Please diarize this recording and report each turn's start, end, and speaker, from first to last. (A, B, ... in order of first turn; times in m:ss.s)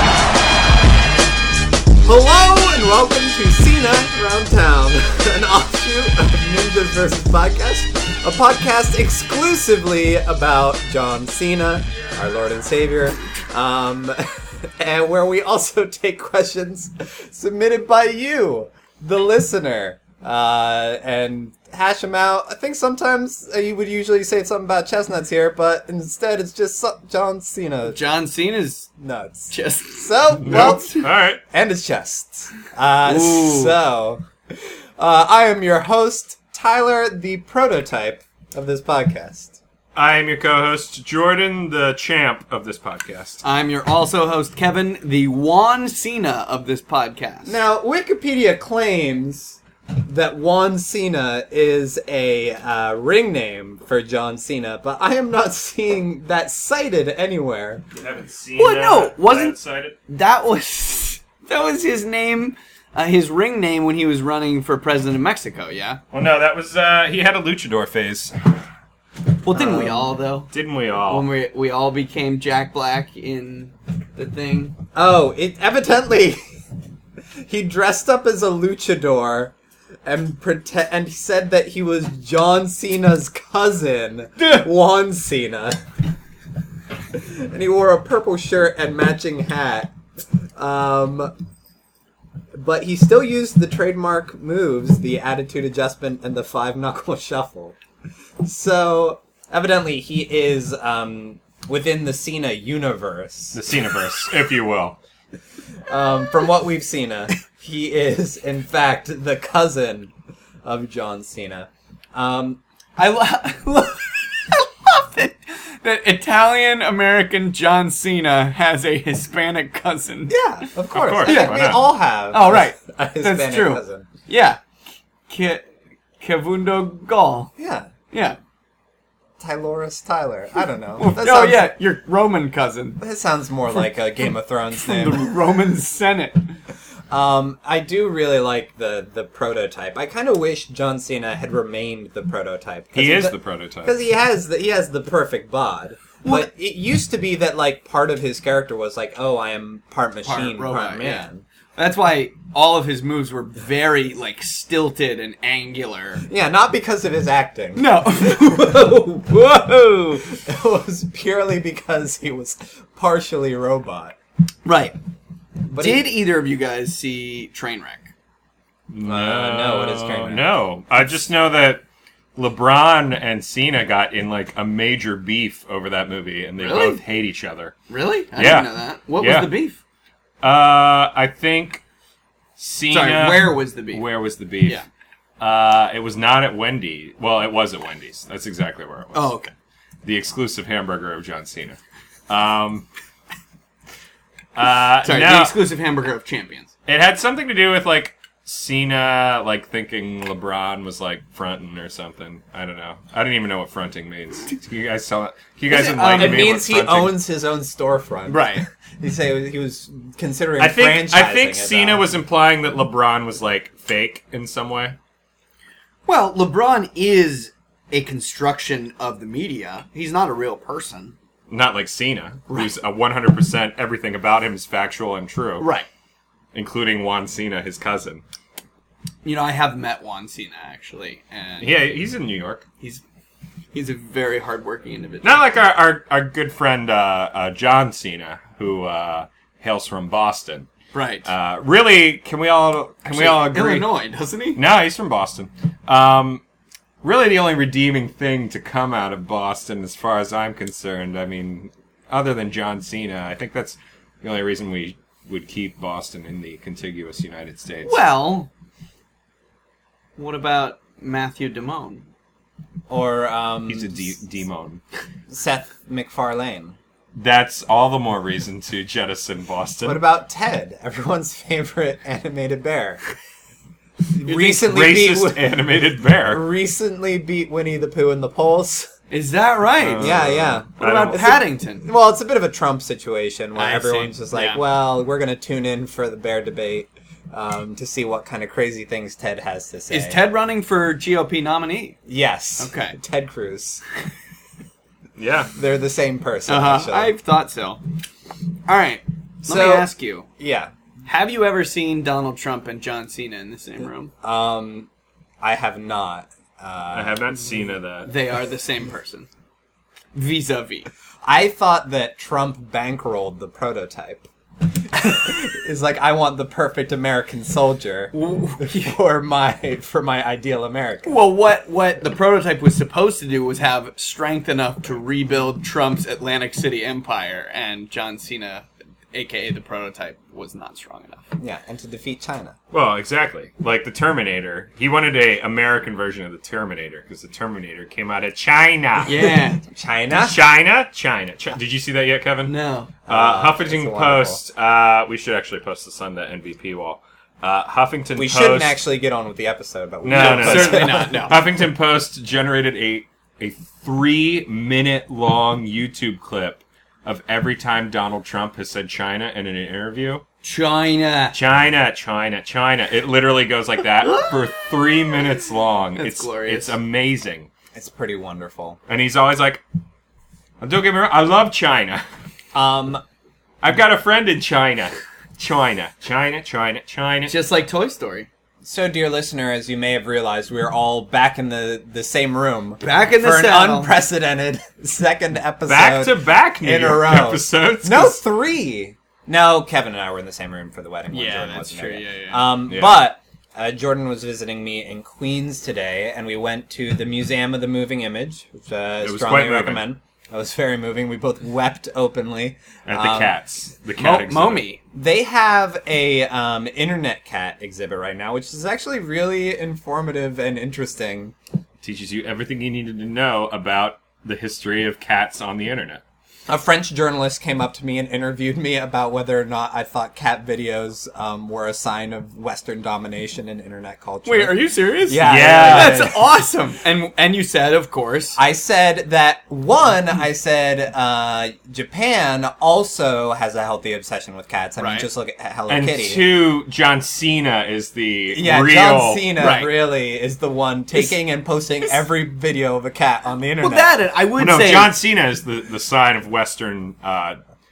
0:02.0-0:28.0 A
0:27.9-0:28.9 B
0:29.0-0:30.9 A
0:29.5-0:31.0 B
0:30.4-0:31.4 C
0:31.5-0:39.6 A
0:33.0-0:33.8 B
0:39.9-0:43.4 C
0:43.4-0:47.6 B
0:47.4-0:57.8 A
0:57.9-1:00.0 C
0:58.6-0:59.6 B
1:00.1-1:06.0 B
1:06.1-1:08.3 C
1:09.4-1:14.8 B
1:09.5-1:10.1 A
1:10.5-1:11.3 C
1:14.9-1:16.4 A
1:17.4-1:25.8 A
1:27.1-1:29.9 A
1:30.6-1:31.3 A
1:32.5-1:37.8 A
1:38.4-1:43.6 A
1:43.5-1:45.0 C
1:45.9-1:50.1 A
1:50.6-1:52.6 A
1:53.0-2:00.7 B
2:00.3-2:04.1 A
2:00.9-2:01.8 C
2:01.2-2:01.6 B
2:02.3-2:04.6 B
2:05.3-2:05.7 B
2:06.2-2:07.5 B
2:07.6-2:07.9 A
2:08.1-2:08.4 B
2:09.4-2:11.7 A
2:11.0-2:13.0 B
2:13.0-2:15.3 A
2:14.8-2:16.6 B
2:17.1-2:31.4 A
2:22.9-2:24.0 C
2:26.2-2:26.5 B
2:30.2-2:36.2 B
2:36.3-2:44.2 A
2:37.8-2:38.9 B
2:44.6-2:45.0 B
2:45.7-2:46.1 A
2:45.7-2:48.1 B
2:48.9-2:51.8 C
2:49.0-2:50.4 A
2:52.4-2:57.8 C
2:56.6-2:57.0 B
2:57.9-2:59.8 B
2:58.3-2:59.5 C
3:00.4-3:01.8 C
3:02.6-3:04.8 C
3:02.9-3:04.0 B
3:05.4-3:09.3 C
3:09.1-3:09.5 B
3:10.0-3:12.8 C
3:14.5-3:15.6 C
3:15.0-3:16.7 B
3:16.8-3:27.2 C
3:25.7-3:26.5 B
3:26.2-3:32.1 A
3:28.3-3:28.6 B
3:30.6-3:35.0 C
3:36.0-3:41.1 B
3:41.5-3:45.7 C
3:45.6-3:45.9 B
3:46.5-3:48.2 C
3:49.2-3:51.7 B
3:51.6-3:52.6 C
3:53.7-3:55.4 B
3:55.2-4:00.7 C
4:00.9-4:01.3 B
4:01.2-4:04.0 C
4:03.1-4:04.6 B
4:04.5-4:06.4 C
4:07.0-4:18.0 C
4:17.8-4:18.5 B
4:20.2-4:22.0 B
4:22.9-4:24.1 A
4:23.7-4:24.8 C
4:25.3-4:26.8 A
4:27.2-4:30.0 C
4:29.8-4:33.0 A
4:34.1-4:35.6 A
4:34.2-4:36.4 C
4:36.3-4:38.9 A
4:39.1-4:40.2 B
4:39.8-4:41.3 C
4:40.0-4:50.2 A
4:40.8-4:41.9 B
4:43.6-4:44.6 B
4:49.9-4:52.0 B
4:52.1-4:53.8 A
4:52.6-4:53.0 B
4:55.2-4:55.5 C
4:55.5-4:57.1 A
4:56.5-4:57.8 B
4:58.6-5:00.3 B
4:59.4-5:00.7 A
5:01.0-5:04.1 B
5:04.2-5:04.9 A
5:05.4-5:07.2 A
5:06.9-5:08.1 C
5:08.0-5:09.3 B
5:10.1-5:10.9 B
5:11.2-5:21.1 A
5:18.1-5:18.9 B
5:21.0-5:31.2 B
5:31.4-5:32.5 A
5:32.7-5:39.3 C
5:39.0-5:39.6 B
5:39.2-5:40.4 A
5:40.1-5:42.5 C
5:42.4-5:42.9 B
5:43.1-5:44.4 A
5:43.1-5:48.8 C
5:48.2-5:51.3 A
5:50.0-6:00.2 C
5:50.1-5:51.4 B
6:00.4-6:01.4 B
6:01.3-6:07.5 C
6:04.2-6:04.6 B
6:06.0-6:06.8 B
6:07.7-6:08.8 A
6:08.9-6:09.6 C
6:10.6-6:12.0 C
6:12.5-6:13.0 A
6:13.6-6:17.3 C
6:17.3-6:18.3 B
6:18.6-6:43.4 A
6:22.8-6:23.9 B
6:25.6-6:28.2 C
6:31.1-6:32.5 B
6:32.6-6:33.0 C
6:39.0-6:39.9 C
6:42.8-6:44.7 C
6:44.0-6:44.8 B
6:44.9-6:51.3 A
6:51.8-6:56.0 C
6:56.5-7:06.3 A
7:04.2-7:08.4 B
7:05.2-7:06.1 C
7:08.4-7:16.2 A
7:14.8-7:15.1 B
7:15.7-7:19.3 C
7:18.3-7:23.9 A
7:19.4-7:19.7 B
7:23.6-7:24.9 B
7:24.4-7:27.4 C